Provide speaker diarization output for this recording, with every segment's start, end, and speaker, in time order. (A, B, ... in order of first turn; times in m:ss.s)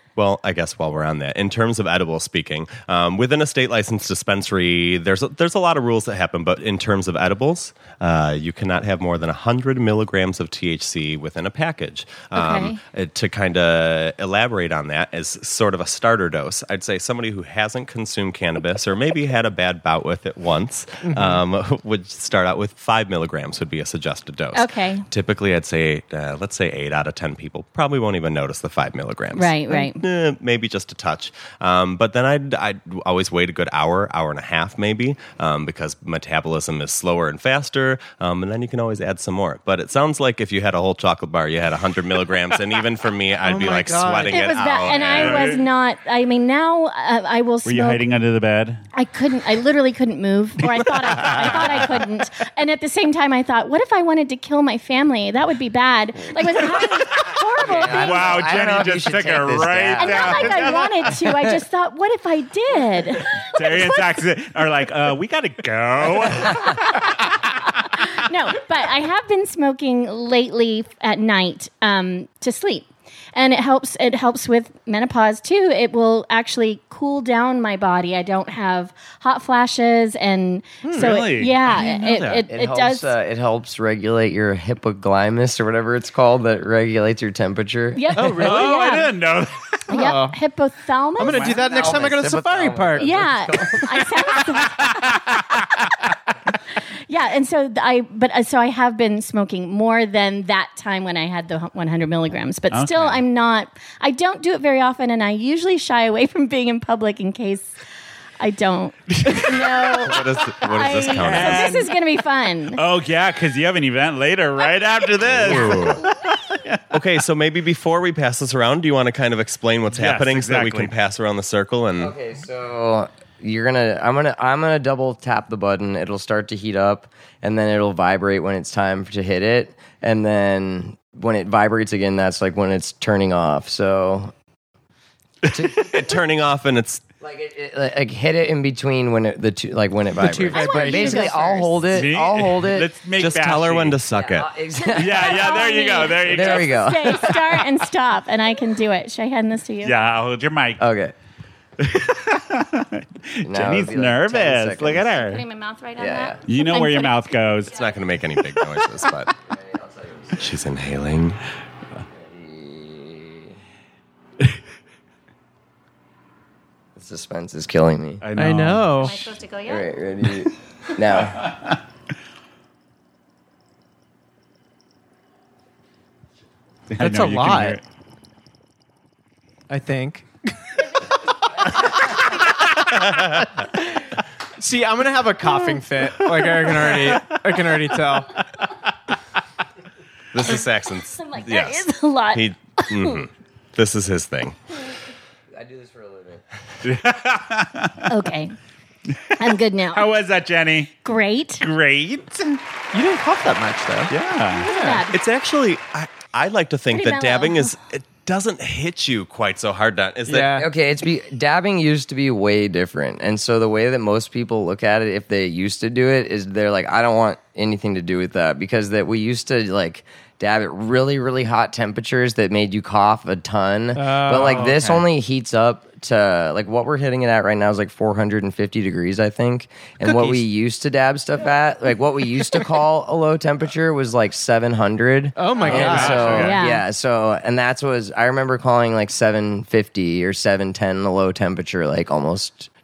0:00.2-0:45.5 A
0:12.3-0:12.8 B
0:21.0-0:21.4 C
0:24.5-0:25.1 B
0:29.3-0:30.0 B
0:43.4-0:44.5 C
0:44.3-0:48.0 B
0:44.9-0:45.7 D
0:47.6-0:48.8 D
0:48.9-0:58.4 B
0:51.0-0:51.7 D
0:57.6-1:00.7 E
0:57.8-1:01.1 D
1:00.0-1:04.0 B
1:03.4-1:07.4 D
1:06.6-1:07.1 B
1:07.7-1:23.1 B
1:20.8-1:21.2 C
1:21.0-1:22.4 D
1:22.5-1:28.0 E
1:27.9-1:29.1 B
1:28.2-1:28.6 C
1:28.2-1:29.9 D
1:29.9-1:30.4 C
1:29.9-1:31.8 B
1:31.2-1:33.2 C
1:31.2-1:31.9 D
1:31.6-1:34.0 E
1:33.0-1:35.2 B
1:34.6-1:35.7 D
1:37.1-1:47.7 B
1:42.7-1:43.2 D
1:48.4-1:52.8 B
1:49.9-1:51.7 A
1:51.1-1:51.9 D
1:52.8-1:56.8 D
1:55.2-1:56.1 A
1:56.9-2:02.1 A
1:59.9-2:00.9 D
2:02.0-2:14.3 E
2:15.5-2:16.2 E
2:15.7-2:17.0 A
2:17.2-2:22.9 E
2:20.2-2:21.5 C
2:20.5-2:21.9 B
2:21.9-2:24.0 D
2:23.2-2:24.5 A
2:24.1-2:25.6 E
2:24.8-2:29.9 B
2:25.0-2:27.2 D
2:26.2-2:27.6 E
2:29.8-2:30.8 D
2:30.8-2:31.1 E
2:31.8-2:35.4 D
2:33.4-2:35.1 E
2:35.2-2:37.3 B
2:36.0-2:36.4 E
2:36.5-2:37.7 D
2:37.6-2:39.3 A
2:39.5-2:40.4 E
2:40.4-2:41.4 A
2:42.1-2:43.5 E
2:47.0-2:48.2 E
2:48.2-2:49.1 D
2:48.4-2:49.2 C
2:49.0-2:49.9 B
2:49.7-2:51.6 E
2:56.9-2:57.8 D
2:57.0-2:57.8 C
2:59.7-3:00.3 C
3:04.6-3:08.3 C
3:05.5-3:05.8 B
3:06.7-3:07.4 D
3:10.3-3:14.6 A
3:11.2-3:13.2 B
3:15.5-3:16.4 E
3:16.8-3:18.1 D
3:18.1-3:18.5 B
3:19.4-3:20.1 B
3:19.9-3:21.0 D
3:21.0-3:21.6 B
3:21.6-3:22.6 D
3:22.9-3:25.0 C
3:24.1-3:24.7 D
3:24.6-3:25.2 B
3:25.0-3:30.6 A
3:26.9-3:27.7 B
3:30.3-3:30.7 C
3:30.6-4:02.7 E
3:44.0-3:45.0 C
3:50.0-3:50.4 C
3:55.4-3:56.6 C
3:55.6-3:56.6 D
3:56.3-3:56.8 B